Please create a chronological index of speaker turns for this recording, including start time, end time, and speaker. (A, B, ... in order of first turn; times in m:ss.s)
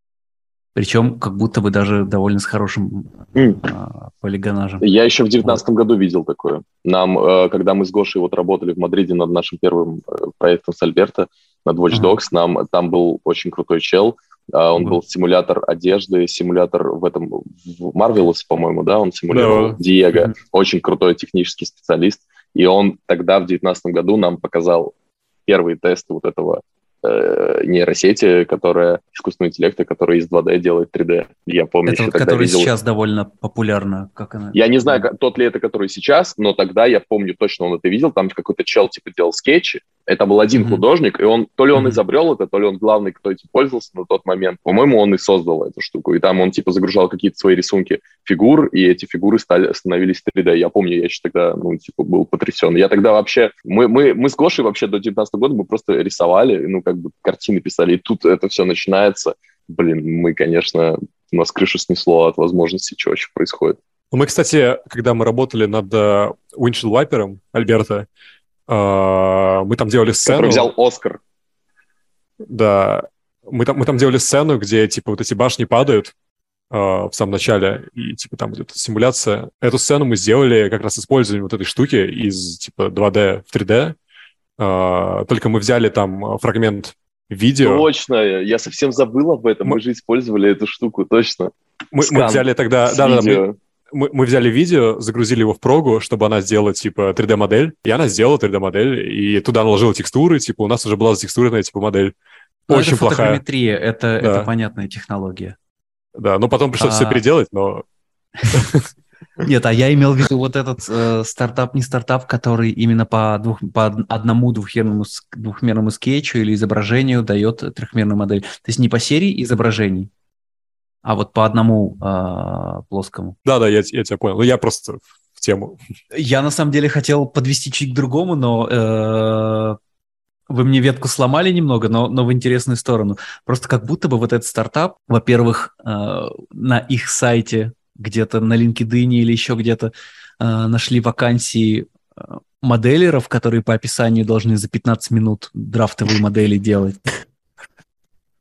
0:00.7-0:04.9 A
0:04.8-0:24.9 B
0:11.9-0:12.2 A
0:19.3-0:19.8 C
0:25.4-0:32.7 B
0:31.8-0:35.0 A
0:34.5-1:03.8 B
0:40.5-0:40.8 A
1:04.1-1:08.1 C
1:08.7-1:10.7 C
1:10.2-1:11.2 B
1:12.5-1:16.1 C
1:16.7-1:24.0 C
1:24.6-1:27.9 C
1:27.6-1:33.6 B
1:31.9-1:42.1 C
1:42.7-1:43.4 C
1:42.7-1:45.6 A
1:44.2-1:44.5 C
1:46.2-1:47.8 C
1:46.8-1:47.2 A
1:48.4-1:48.8 C
1:49.4-2:00.1 A
2:01.0-2:03.4 A
2:03.4-2:05.8 C
2:06.1-2:09.8 A
2:10.5-2:27.0 A